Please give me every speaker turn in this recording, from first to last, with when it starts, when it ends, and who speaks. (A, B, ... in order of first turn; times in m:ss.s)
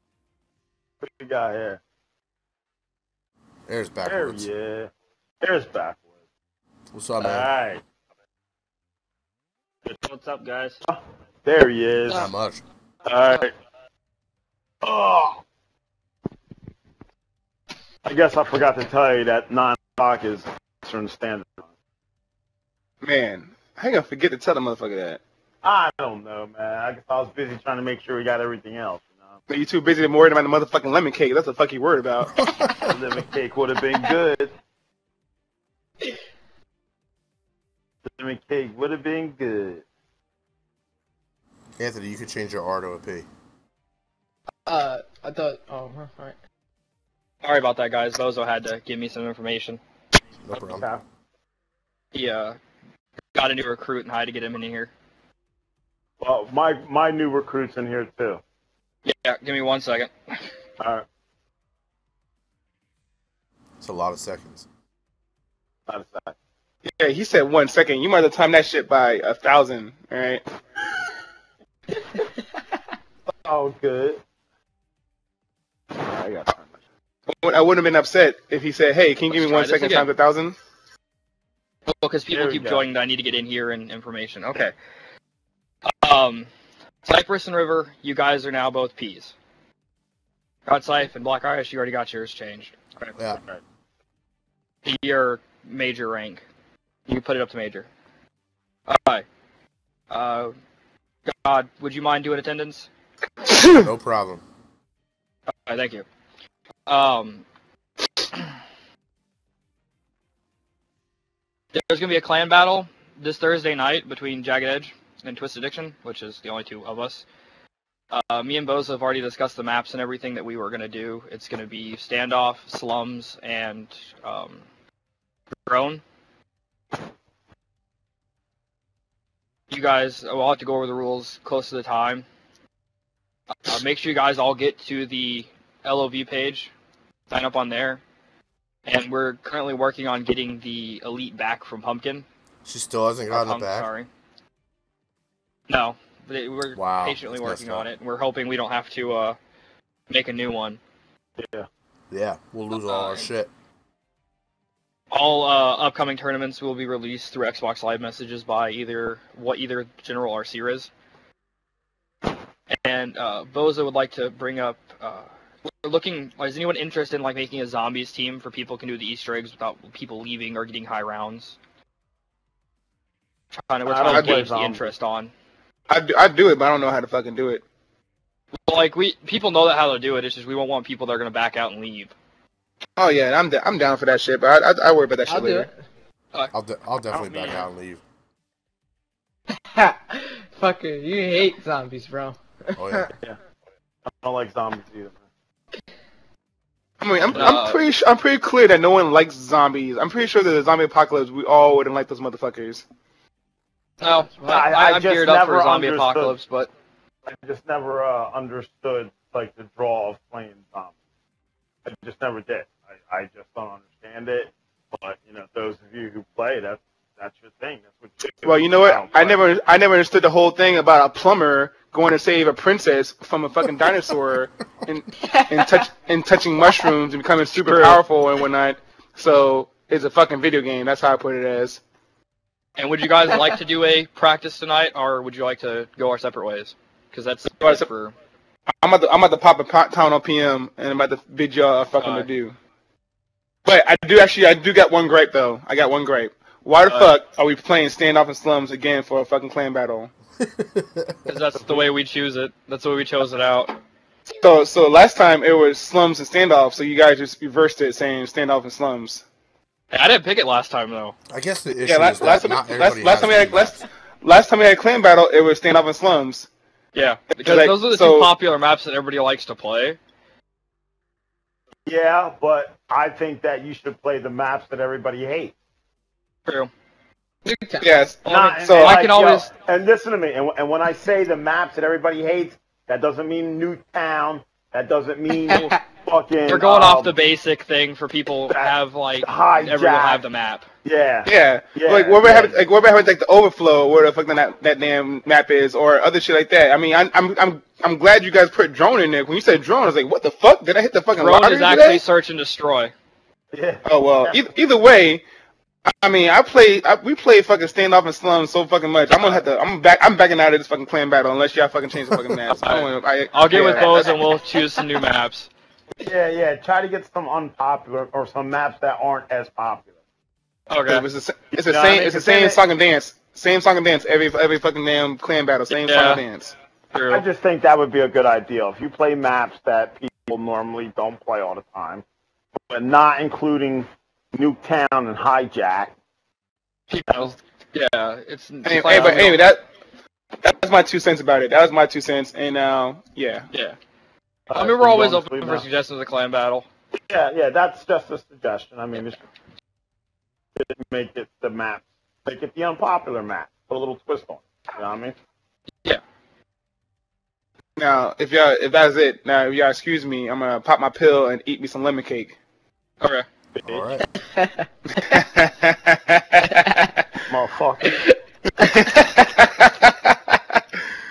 0:01.0-0:01.8 A
0:03.7-0:04.5 B
0:04.0-0:04.9 A
0:05.4-0:06.0 A
0:06.9-0:07.5 B
0:07.2-0:07.8 A
0:10.0-0:10.8 C
0:10.9-0:12.3 A
0:12.1-0:12.6 B
0:13.0-0:13.5 A
0:14.8-0:15.4 A
0:18.0-0:21.7 A
0:23.0-0:25.2 D
0:25.6-0:29.4 A
0:29.5-0:32.4 D
0:32.4-0:32.7 B
0:32.8-0:34.5 A
0:38.1-0:39.8 A
0:41.8-0:43.3 B
0:44.7-0:46.4 E
0:47.4-0:49.8 C
0:50.4-0:50.9 B
0:50.6-0:51.0 A
0:52.1-0:52.6 C
0:53.3-0:54.9 C
0:56.2-0:58.4 A
0:59.0-1:00.4 C
1:00.8-1:01.0 A
1:03.8-1:04.7 B
1:05.9-1:06.3 A
1:06.8-1:10.4 D
1:13.4-1:14.2 A
1:16.0-1:16.7 A
1:17.3-1:20.6 D
1:19.3-1:20.1 C
1:21.9-1:24.7 C
1:22.3-1:22.8 A
1:25.8-1:26.5 C
1:27.0-1:29.3 C
1:30.6-1:33.2 C
1:34.8-1:36.4 C
1:37.1-1:37.9 C
1:38.9-1:39.2 C
1:40.1-1:40.5 C
1:41.2-1:42.9 C
1:43.7-1:44.4 B
1:45.5-1:46.0 C
1:46.9-1:47.4 C
1:51.7-1:57.2 C
1:58.1-2:04.6 C
2:05.6-2:06.0 C
2:09.7-2:12.2 C
2:13.6-2:16.7 C
2:17.3-2:18.0 C
2:18.8-2:22.2 C
2:22.6-2:23.9 B
2:23.3-2:24.1 C
2:25.7-2:29.4 C
2:26.7-2:27.9 B
2:30.1-2:30.8 C
2:31.4-2:31.6 A
2:32.1-2:33.5 B
2:32.7-2:33.3 C
2:35.1-2:40.9 C
2:42.7-2:51.6 C
2:53.5-2:55.3 C
2:53.8-2:54.8 A
2:54.0-2:54.4 D
2:55.9-2:57.6 D
2:58.6-3:02.1 C
3:03.0-3:05.7 D
3:05.2-3:05.7 E
3:06.5-3:08.0 B
3:07.1-3:07.6 A
3:09.7-3:13.1 E
3:12.8-3:13.1 B
3:14.2-3:15.2 A
3:17.0-3:22.8 D
3:17.3-3:17.8 C
3:24.0-3:26.7 C
3:24.4-3:26.3 A
3:27.2-3:30.9 A
3:31.8-3:39.4 A
3:38.4-3:51.8 D
3:45.4-3:45.8 E
3:47.7-3:48.0 C
3:52.8-3:58.1 C
3:57.6-3:57.8 D
3:58.8-4:02.6 D
4:02.0-4:02.3 C
4:03.6-4:10.1 D
4:06.8-4:07.2 C
4:10.4-4:11.1 B
4:11.2-4:13.8 C
4:14.4-4:19.2 D
4:19.9-4:21.2 C
4:21.3-4:23.8 B
4:21.8-4:26.5 D
4:26.9-4:30.0 C
4:27.3-4:28.3 D
4:31.8-4:35.5 A
4:37.4-4:37.9 E
4:37.8-4:39.0 D
4:38.2-4:39.5 C
4:38.2-4:47.1 A
4:46.5-4:50.6 C
4:48.5-4:50.2 A
4:50.8-4:52.6 A
4:51.2-5:02.0 D
5:01.1-5:02.9 C
5:03.5-5:04.4 A
5:03.8-5:05.2 D
5:05.9-5:14.1 D
5:09.1-5:09.5 A
5:12.6-5:15.5 C
5:13.5-5:14.2 A
5:16.0-5:19.9 A
5:20.7-5:21.0 C
5:20.9-5:26.6 D
5:21.6-5:22.6 A
5:25.7-5:26.2 C
5:26.9-5:27.2 C
5:27.1-5:32.0 A
5:32.7-5:35.9 A
5:36.9-5:39.4 C
5:38.6-5:39.6 D
5:40.4-5:43.5 D
5:43.5-5:43.8 C
5:44.5-5:45.7 A
5:44.5-5:46.7 C
5:47.1-5:49.2 A
5:50.6-5:55.2 A
5:57.8-6:02.4 D
6:03.0-6:03.2 C
6:03.6-6:03.9 A
6:03.6-6:04.0 B
6:04.3-6:04.6 E
6:04.9-6:07.0 D
6:06.5-6:06.7 E
6:07.3-6:08.1 A
6:08.6-6:10.6 D